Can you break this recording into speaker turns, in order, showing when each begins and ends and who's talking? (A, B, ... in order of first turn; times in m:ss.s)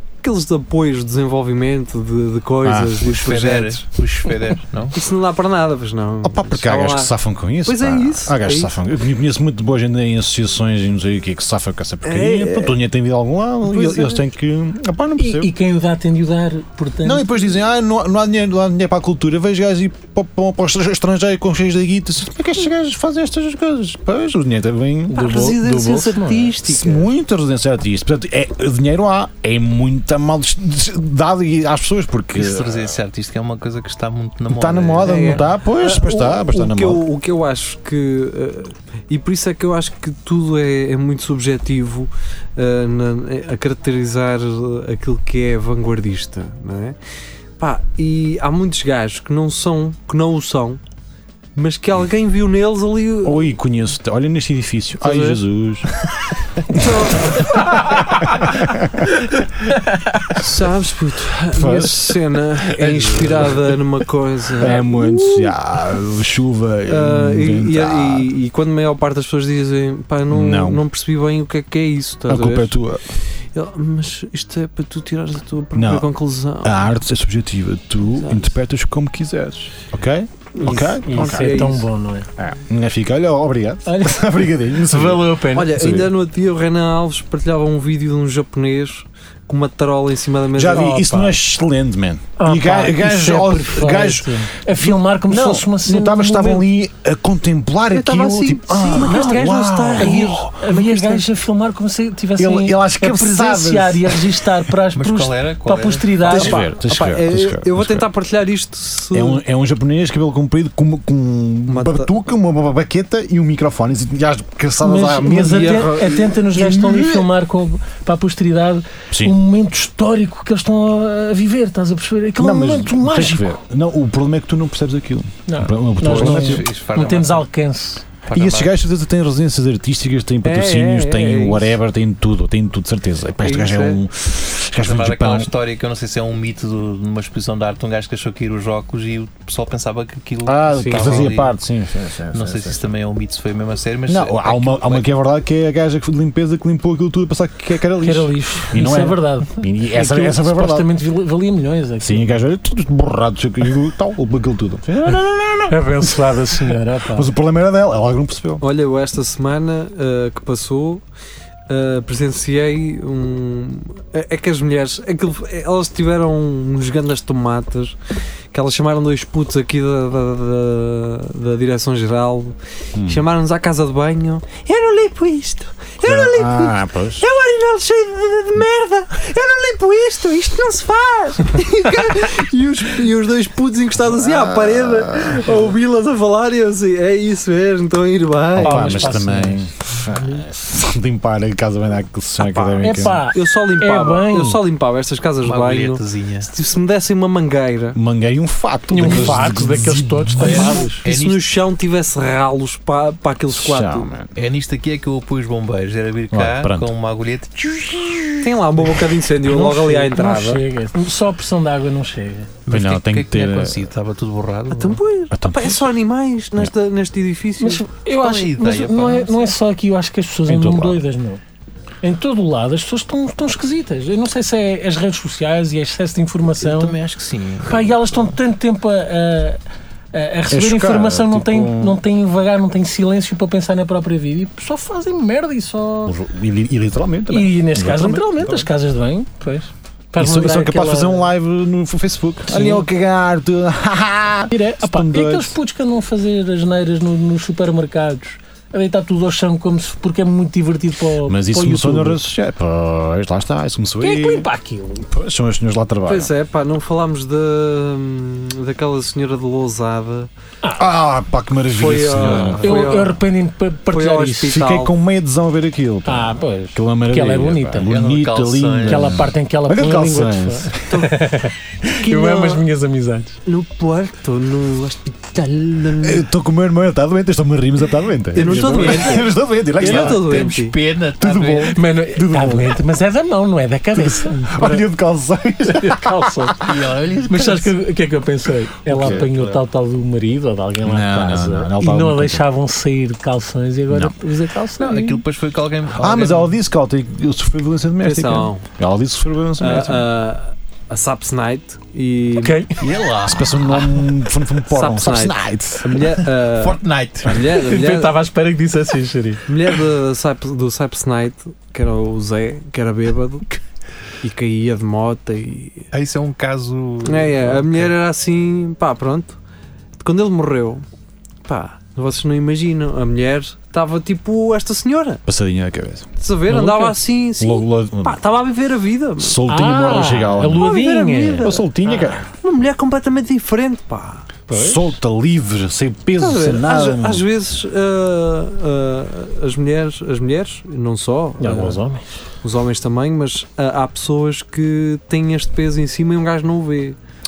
0:00.2-0:07.1 A
0:02.6-0:03.0 B
0:03.0-0:05.0 C
0:06.2-0:15.5 B
0:07.6-0:08.7 A
0:12.0-0:12.8 A
0:13.6-0:14.2 A
0:15.2-0:17.3 D
0:17.0-0:25.4 B
0:25.1-0:26.5 D
0:25.1-0:27.1 A
0:26.6-0:33.0 B
0:32.3-0:35.4 C
0:34.5-0:37.0 B
0:35.0-0:47.0 A
0:47.6-0:50.8 A
0:51.5-0:53.5 A
0:53.2-0:55.9 B
0:55.0-0:55.4 A
0:56.7-0:57.6 A
0:57.8-0:58.1 D
0:58.4-0:59.0 B
0:59.9-1:00.2 D
1:00.3-1:05.5 A
1:01.4-1:03.8 B
1:03.0-1:03.5 C
1:04.5-1:08.3 B
1:06.9-1:12.8 A
1:10.3-1:10.8 B
1:12.3-1:13.0 B
1:13.4-1:16.8 A
1:15.7-1:16.1 B
1:16.6-1:21.7 B
1:18.2-1:18.5 A
1:20.6-1:21.9 A
1:20.6-1:22.3 D
1:22.4-1:26.1 B
1:23.8-1:25.8 D
1:25.5-1:31.0 A
1:30.5-1:41.2 B
1:30.7-1:31.4 D
1:32.4-1:36.7 D
1:37.9-1:40.9 A
1:39.0-1:46.6 D
1:42.4-1:44.5 B
1:44.9-1:46.2 C
1:46.2-1:48.1 B
1:46.3-1:49.4 A
1:49.1-1:57.2 B
1:51.7-1:52.1 A
1:54.8-2:03.6 D
1:55.4-1:56.4 A
1:59.1-1:59.4 B
2:02.4-2:06.6 B
2:05.5-2:08.0 D
2:06.0-2:07.4 C
2:08.3-2:08.7 C
2:08.3-2:15.5 B
2:10.4-2:11.8 A
2:13.4-2:14.0 A
2:14.8-2:21.5 C
2:20.4-2:22.9 B
2:20.8-2:21.3 A
2:22.3-2:25.1 C
2:24.1-2:30.9 B
2:28.0-2:32.3 D
2:32.0-2:38.6 B
2:35.7-2:37.3 D
2:38.6-2:41.0 A
2:41.7-2:48.0 A
2:48.5-3:09.2 A
2:53.0-2:53.2 B
2:56.0-2:57.2 B
3:04.0-3:05.7 B
3:08.5-3:13.2 B
3:08.6-3:09.7 D
3:12.4-3:18.0 A
3:12.8-3:14.6 D
3:15.4-3:16.5 C
3:17.9-3:20.8 B
3:18.9-3:21.0 D
3:20.4-3:21.6 C
3:21.0-3:24.1 A
3:23.5-3:24.4 B
3:24.3-3:28.4 C
3:26.3-3:26.9 B
3:28.4-3:30.6 A
3:29.4-3:32.5 D
3:32.6-3:35.0 C
3:32.7-3:33.9 B
3:34.7-3:37.9 A
3:35.3-3:36.0 B
3:37.6-3:41.4 D
3:38.1-3:39.5 C
3:40.5-3:41.0 B
3:42.0-3:47.0 D
3:46.6-3:48.4 C
3:47.7-3:49.6 D
3:50.1-3:56.1 D
3:50.5-3:52.0 B
3:56.0-3:58.7 B
3:57.3-4:01.3 D
4:00.2-4:05.5 B
4:02.5-4:02.9 D
4:04.5-4:12.2 D
4:11.2-4:14.5 B
4:14.0-4:15.1 D
4:15.0-4:16.3 B
4:16.0-4:20.3 A
4:20.8-4:23.0 B
4:21.7-4:23.2 A
4:22.1-4:22.7 C
4:22.6-4:24.6 D
4:23.9-4:24.9 A
4:24.4-4:31.1 B
4:26.0-4:27.9 D
4:27.8-4:29.2 C
4:28.8-4:33.3 D
4:30.9-4:31.2 A
4:31.9-4:32.7 A
4:33.4-4:36.2 A
4:36.0-4:40.5 B
4:38.3-4:40.7 A
4:38.4-4:41.8 C
4:41.2-4:42.8 B
4:41.7-4:44.8 D
4:44.0-4:46.8 B
4:45.7-4:46.6 D
4:46.6-4:47.7 C
4:47.3-4:55.2 D
4:48.9-4:49.3 B
4:48.9-4:49.6 C
4:50.8-4:52.5 B
4:53.9-4:54.2 B
4:54.8-4:56.6 C
4:55.9-5:00.1 B
4:58.0-4:58.6 A
4:59.6-5:02.6 A
5:02.4-5:02.7 D
5:02.8-5:03.9 C
5:03.2-5:06.0 B
5:04.7-5:08.2 A
5:06.4-5:07.5 C
5:07.5-5:09.4 D
5:09.5-5:13.5 A
5:14.2-5:15.9 A
5:15.9-5:17.9 C
5:17.0-5:19.4 A
5:20.0-5:20.8 A
5:21.4-5:25.2 A
5:25.2-5:26.1 B
5:26.2-5:29.4 A
5:26.5-5:26.9 D
5:27.4-5:28.2 B
5:29.2-5:30.7 B
5:29.5-5:31.6 D
5:30.4-5:34.4 A
5:31.4-5:32.3 B
5:34.5-5:34.8 D
5:34.5-5:37.2 B
5:36.2-5:41.8 A
5:41.4-5:42.0 D
5:42.4-5:47.0 A